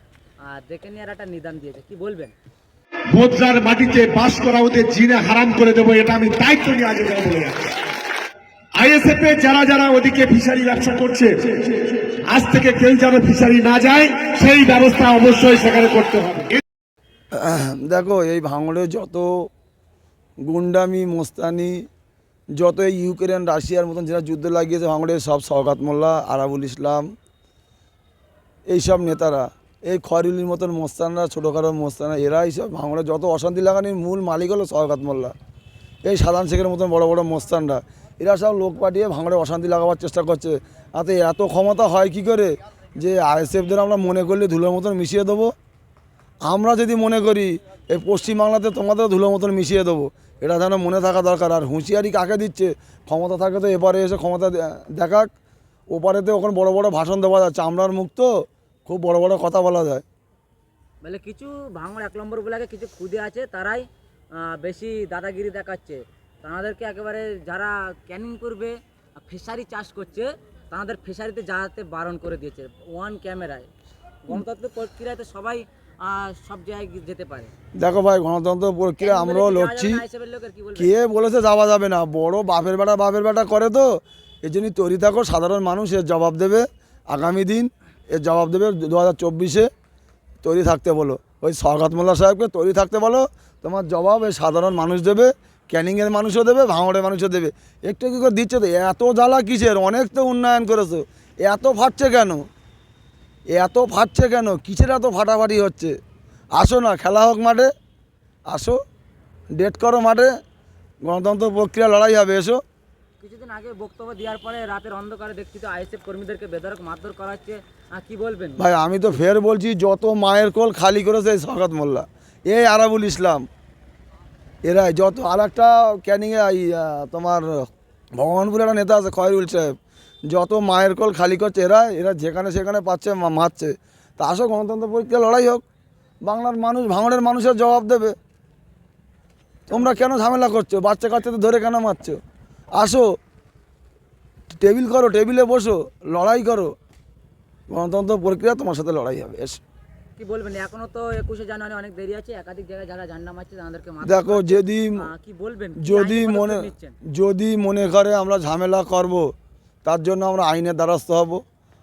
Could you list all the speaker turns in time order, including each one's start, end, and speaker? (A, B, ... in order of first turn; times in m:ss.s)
0:00.4-0:02.3 A
0:03.1-0:07.7 B
0:08.8-0:16.6 B
0:17.3-0:19.5 C
0:20.4-0:21.9 C
0:22.6-0:27.1 C
0:28.7-0:35.3 C
0:36.0-0:45.5 C
0:46.5-0:55.3 C
0:55.9-0:58.3 C
0:58.9-1:00.0 C
1:01.0-1:03.9 A
1:04.4-1:13.7 A
1:14.3-1:17.5 A
1:17.8-1:20.0 C
1:19.0-1:20.9 A
1:20.8-1:29.7 C
1:30.4-1:42.4 C
1:43.5-1:46.0 C
1:46.6-1:47.7 C
1:48.5-1:48.8 C
1:49.5-1:50.3 C
1:51.0-1:52.6 C
1:53.2-1:58.6 A
1:58.6-2:03.5 C
2:04.6-2:09.8 C
2:10.3-2:15.6 C
2:16.3-2:18.2 C
2:19.7-2:22.2 C
2:22.8-2:23.1 C
2:24.5-2:26.7 C
2:27.7-2:29.6 C
2:30.2-2:37.0 A
2:34.0-2:35.1 C
2:35.8-2:39.3 C
2:39.8-2:41.4 C